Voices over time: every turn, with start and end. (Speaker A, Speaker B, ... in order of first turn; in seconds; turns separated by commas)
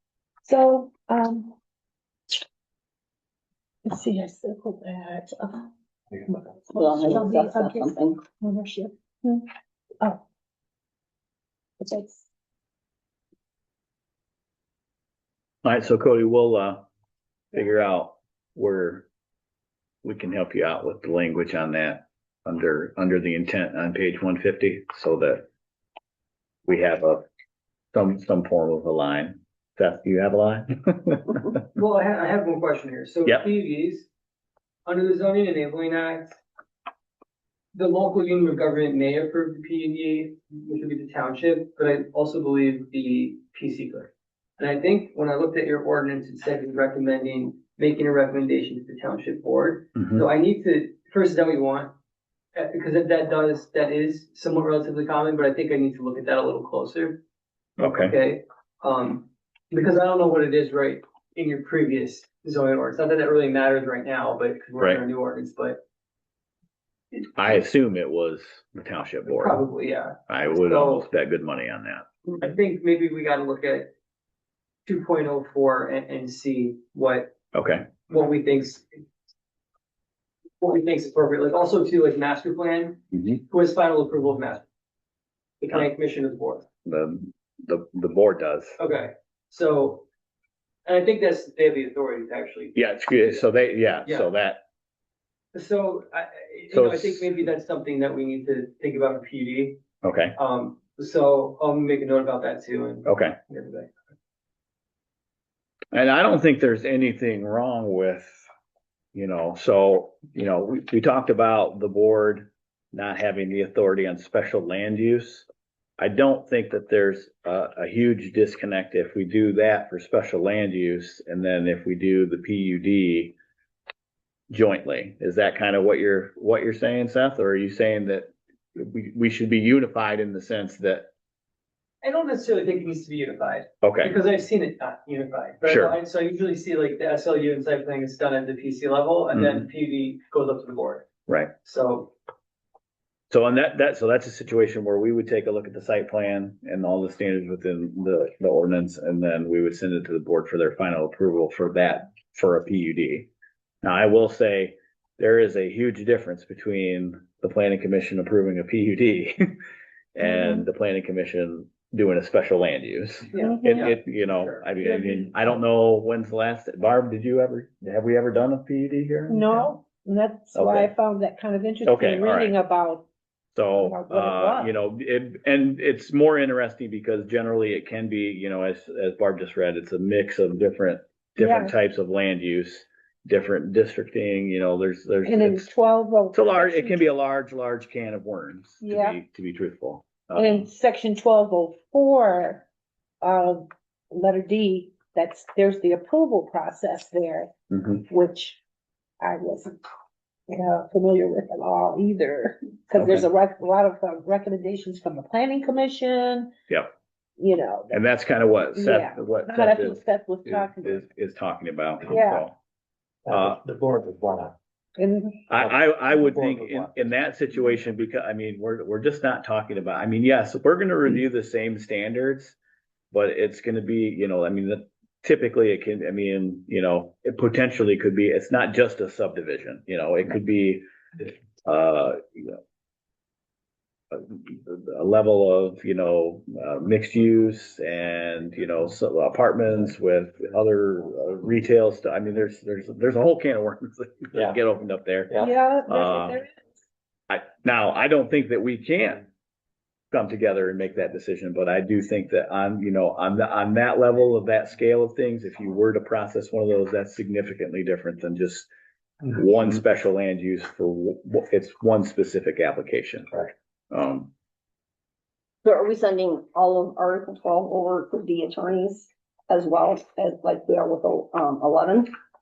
Speaker A: 0.4-1.6, Speaker A: 3.8-5.7, Speaker A: 6.2-9.5, Speaker B: 6.7-8.2, Speaker A: 11.8-12.3, Speaker C: 15.6-16.9, Speaker C: 17.5-19.1, Speaker C: 20.0-25.4, Speaker C: 26.7-27.2, Speaker C: 27.9-31.6, Speaker D: 31.7-34.1, Speaker D: 34.9-36.4, Speaker D: 37.7-51.9, Speaker C: 50.0-50.3, Speaker D: 52.5-57.2, Speaker C: 57.8-58.1, Speaker D: 57.8-65.8, Speaker C: 67.3-69.6, Speaker D: 69.3-71.0, Speaker C: 70.3-72.1, Speaker D: 72.4-73.9, Speaker D: 74.8-77.3, Speaker C: 77.5-77.9, Speaker D: 78.1-79.0, Speaker D: 80.6-84.6, Speaker D: 85.6-86.7, Speaker C: 86.8-88.8, Speaker D: 88.8-90.0, Speaker D: 90.8-92.7, Speaker C: 92.7-94.6, Speaker D: 95.5-99.8, Speaker C: 96.7-97.3, Speaker C: 100.0-100.4, Speaker D: 100.3-103.9, Speaker C: 103.0-103.4, Speaker C: 105.9-108.5, Speaker C: 109.1-115.5, Speaker C: 116.0-123.3, Speaker C: 124.5-131.1, Speaker D: 132.0-141.1, Speaker C: 133.8-134.2, Speaker C: 135.6-135.9, Speaker C: 139.3-139.6, Speaker C: 141.3-141.5, Speaker D: 141.6-142.1, Speaker C: 143.3-153.3, Speaker C: 153.8-159.4, Speaker C: 160.1-169.8, Speaker A: 160.2-160.6, Speaker A: 163.3-163.9, Speaker B: 163.5-163.8, Speaker D: 163.7-164.6, Speaker A: 169.3-173.1, Speaker C: 170.5-170.9, Speaker C: 171.8-172.6, Speaker C: 173.5-185.7, Speaker A: 173.7-174.7, Speaker A: 181.4-181.7, Speaker A: 185.2-187.0, Speaker C: 186.3-190.7, Speaker A: 188.8-189.2, Speaker A: 190.3-192.6, Speaker A: 193.2-197.5, Speaker C: 197.7-198.0, Speaker A: 198.1-198.6, Speaker A: 199.2-199.8, Speaker A: 200.5-206.5, Speaker C: 202.9-203.2, Speaker A: 207.4-208.0, Speaker C: 207.9-212.6, Speaker A: 208.7-211.0, Speaker A: 212.1-212.5, Speaker C: 213.3-213.6, Speaker E: 213.3-214.5, Speaker A: 215.0-215.4, Speaker C: 215.5-222.6, Speaker E: 216.4-217.0, Speaker C: 223.1-232.6, Speaker C: 234.1-246.4, Speaker A: 245.4-246.5, Speaker C: 247.3-249.3, Speaker C: 250.1-258.7, Speaker C: 259.3-264.3, Speaker B: 265.6-272.1